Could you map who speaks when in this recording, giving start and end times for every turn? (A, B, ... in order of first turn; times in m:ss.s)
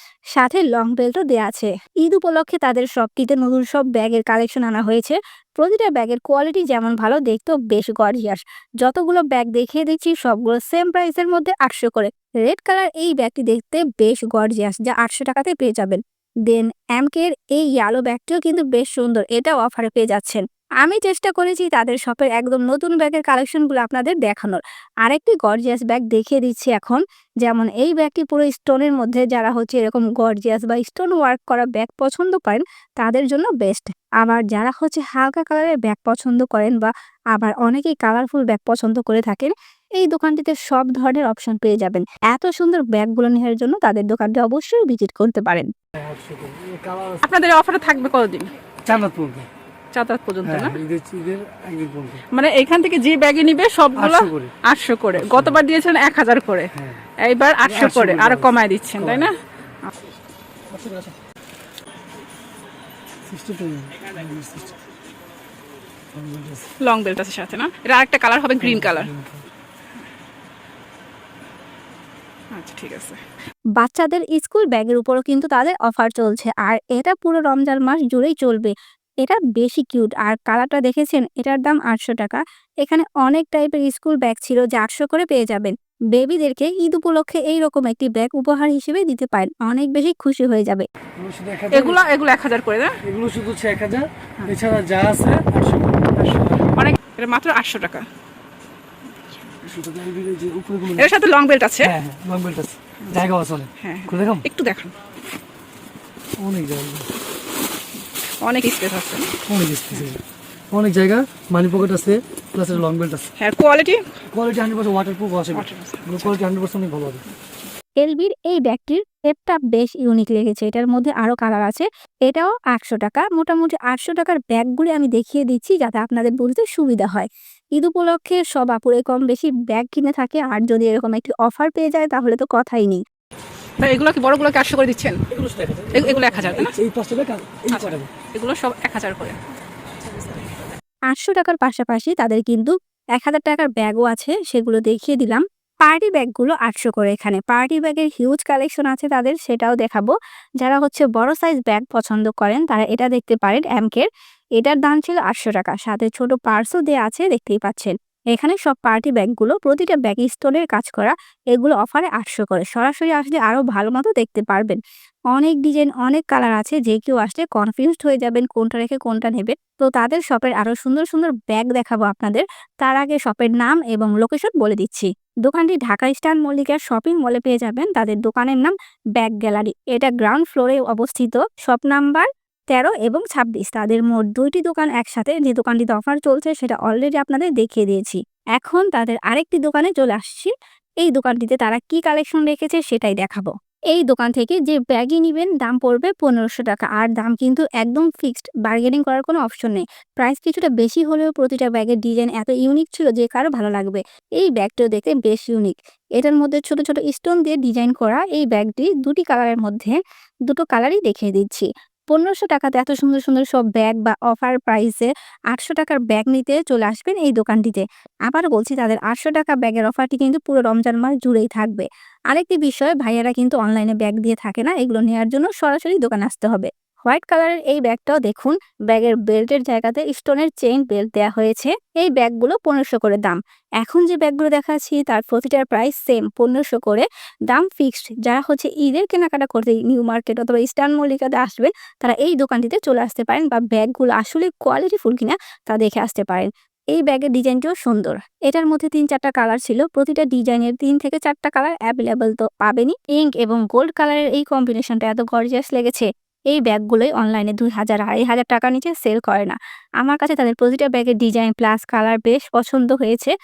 0:00.3-0:45.7 A
0:46.0-0:47.2 B
0:47.2-0:48.5 C
0:48.8-0:49.5 B
0:49.9-0:50.8 C
0:50.4-0:52.2 B
0:52.3-0:56.7 C
0:54.0-0:54.5 B
0:55.1-0:55.6 B
0:56.7-0:57.1 B
0:57.2-0:59.4 C
0:57.6-0:59.3 B
1:00.7-1:01.2 B
1:03.2-1:04.7 B
1:06.1-1:06.7 B
1:06.8-1:09.1 C
1:08.6-1:09.4 B
1:12.5-1:13.2 C
1:13.8-1:30.8 A
1:31.2-1:32.0 B
1:31.7-1:33.0 C
1:33.0-1:36.7 B
1:36.2-1:38.1 C
1:39.1-1:39.7 C
1:39.7-1:41.1 B
1:41.0-1:41.9 C
1:41.8-1:44.4 B
1:43.8-1:44.9 C
1:46.4-1:47.1 B
1:48.4-1:49.4 C
1:49.5-1:53.3 B
1:53.4-1:54.0 C
1:54.3-1:57.2 B
1:55.5-1:56.3 C
1:58.0-2:13.0 A
2:13.8-2:15.2 C
2:15.3-2:18.1 B
2:15.9-2:16.7 C
2:17.7-2:19.5 C
2:21.1-2:34.1 A
2:34.6-2:44.8 A
2:45.3-3:30.0 A
3:30.5-4:23.3 A